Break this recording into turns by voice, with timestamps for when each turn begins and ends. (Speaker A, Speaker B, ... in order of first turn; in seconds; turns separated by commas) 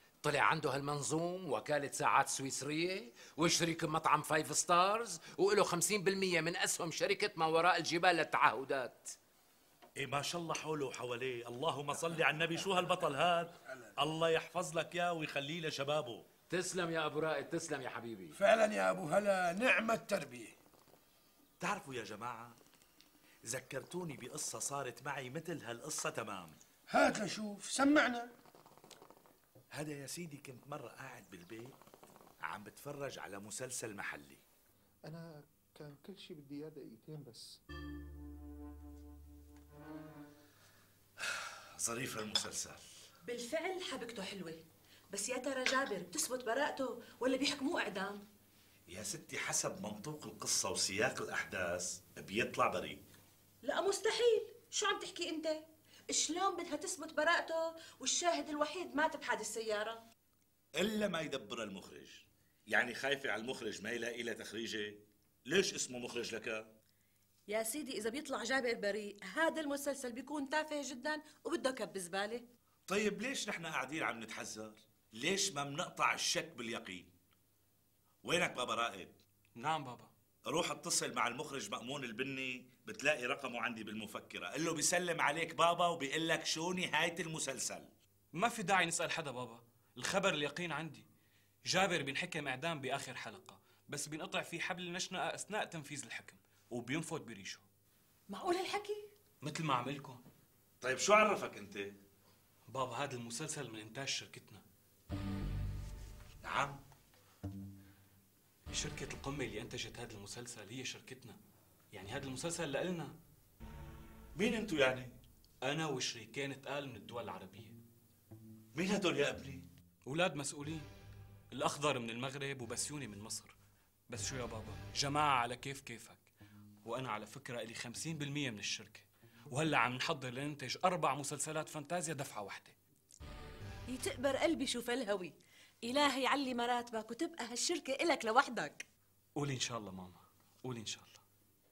Speaker A: 0.2-9.2, Speaker B: 10.0-16.2, Speaker A: 16.5-18.4, Speaker C: 18.4-20.5, Speaker B: 21.6-22.6, Speaker B: 23.5-26.6, Speaker C: 26.9-28.3, Speaker B: 29.7-31.8, Speaker B: 32.4-34.4, Speaker D: 35.0-37.6, Speaker B: 41.2-42.8, Speaker E: 43.2-48.2, Speaker B: 48.9-53.0, Speaker E: 53.6-60.0, Speaker B: 60.8-66.7, Speaker E: 67.5-72.5, Speaker B: 72.9-77.1, Speaker B: 78.2-79.1, Speaker F: 79.5-80.1, Speaker B: 80.5-87.9, Speaker F: 88.3-91.0, Speaker F: 91.7-97.6, Speaker E: 98.3-99.0, Speaker F: 99.4-100.2, Speaker B: 100.8-102.0, Speaker F: 102.7-104.6, Speaker B: 106.4-106.8, Speaker F: 108.7-111.4, Speaker F: 111.9-113.1, Speaker B: 114.3-115.1, Speaker F: 115.6-117.8, Speaker B: 118.7-119.7, Speaker F: 120.0-120.9, Speaker F: 121.5-123.5, Speaker F: 124.1-126.3, Speaker F: 126.8-132.8, Speaker E: 133.9-138.8, Speaker F: 139.3-141.2